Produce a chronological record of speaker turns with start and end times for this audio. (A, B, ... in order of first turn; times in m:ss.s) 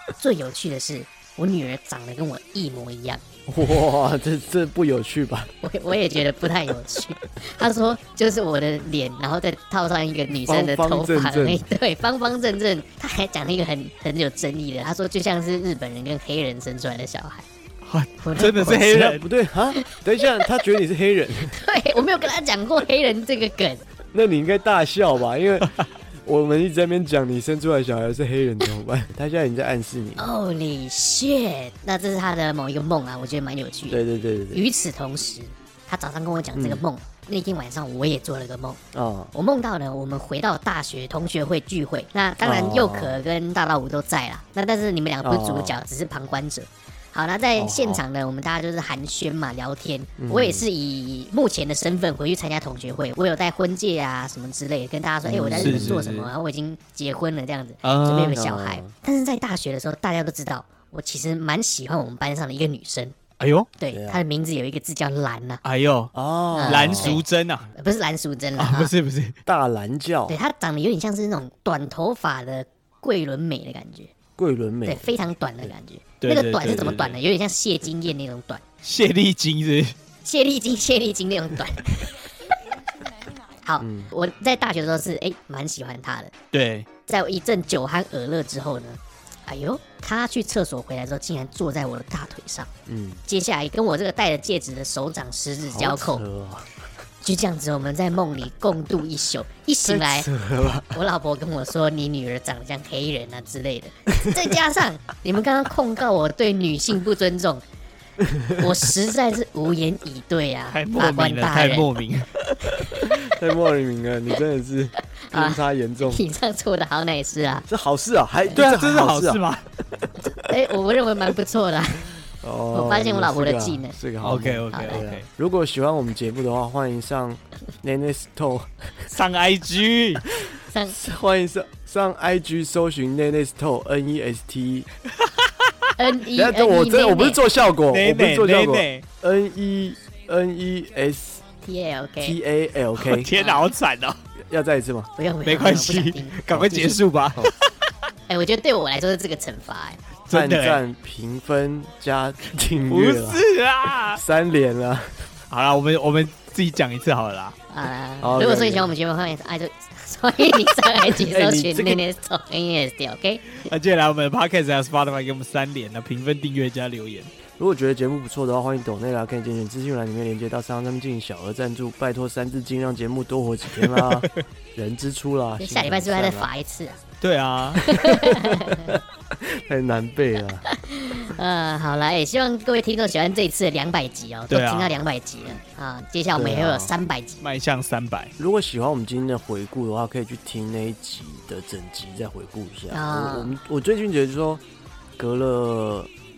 0:00.2-0:03.2 A
0:03.5-0:05.5 B
0:05.6-0:17.5 A
0:10.5-0:11.6 B
0:17.8-0:19.2 C
0:18.2-0:18.8 A
0:18.6-0:21.6 B
0:19.7-0:20.5 A
0:21.5-0:23.8 A
0:24.1-0:25.7 B
0:26.2-0:30.3 B
0:30.2-0:34.0 A
0:33.9-0:34.6 B
0:34.5-0:38.8 A
0:36.5-0:36.8 B
0:38.9-0:39.3 B
0:39.3-1:03.2 A
0:42.4-0:43.2 B
0:45.2-0:45.8 B
0:47.6-0:48.0 B
0:50.2-0:50.6 B
0:55.2-0:56.0 B
0:55.5-0:56.3 C
0:57.8-0:58.4 C
0:58.3-0:58.9 B
1:03.4-1:03.7 C
1:03.8-1:05.6 A
1:03.9-1:04.2 B
1:05.6-1:06.1 C
1:06.1-1:07.2 B
1:06.5-1:08.9 A
1:06.6-1:07.7 C
1:08.6-1:09.4 C
1:09.4-1:10.4 B
1:10.3-1:14.1 A
1:14.4-1:15.7 B
1:14.8-1:18.6 A
1:16.2-1:17.2 C
1:18.8-1:20.0 C
1:20.2-1:22.2 A
1:23.6-1:26.3 A
1:23.8-1:24.1 B
1:26.5-1:26.9 C
1:27.0-1:32.7 A
1:32.9-1:33.2 B
1:33.3-1:36.2 A
1:35.7-1:36.7 B
1:37.2-1:40.3 A
1:39.8-1:41.0 B
1:40.9-1:47.6 A
1:48.6-1:51.9 A
1:50.7-1:52.4 C
1:52.8-1:53.1 A
1:53.1-1:56.2 B
1:55.3-1:57.6 A
1:57.6-1:59.4 B
1:58.6-1:59.6 C
2:00.5-2:02.2 A
2:02.4-2:09.1 B
2:02.7-2:04.0 A
2:04.2-2:05.2 C
2:04.7-2:05.0 A
2:09.1-2:10.2 C
2:10.7-2:11.0 A
2:10.9-2:14.9 B
2:15.2-2:15.5 C
2:16.0-2:17.4 A
2:16.3-2:21.4 B
2:17.9-2:19.0 C
2:21.6-2:22.4 A
2:22.2-2:23.3 B
2:23.0-2:24.2 C
2:23.3-2:23.6 A
2:24.5-2:25.1 B
2:25.2-2:27.0 A
2:25.4-2:27.5 C
2:28.3-2:30.0 A
2:30.3-2:30.8 C
2:30.3-2:33.4 B
2:32.9-2:34.2 C
2:34.1-2:35.3 B
2:35.5-2:37.6 C
2:37.7-2:43.6 A
2:38.2-2:38.9 B
2:41.1-2:42.0 B
2:43.6-2:47.3 C
2:47.6-2:56.5 B
2:54.0-2:54.3 C
2:55.6-2:57.0 A
2:57.2-2:58.1 C
2:57.8-2:58.9 A
2:58.7-3:00.7 B
3:00.7-3:07.4 A
3:04.5-3:05.0 C
3:06.3-3:06.9 B
3:07.4-3:08.3 C
3:08.4-3:14.6 B
3:12.9-3:13.5 A
3:15.2-3:16.1 B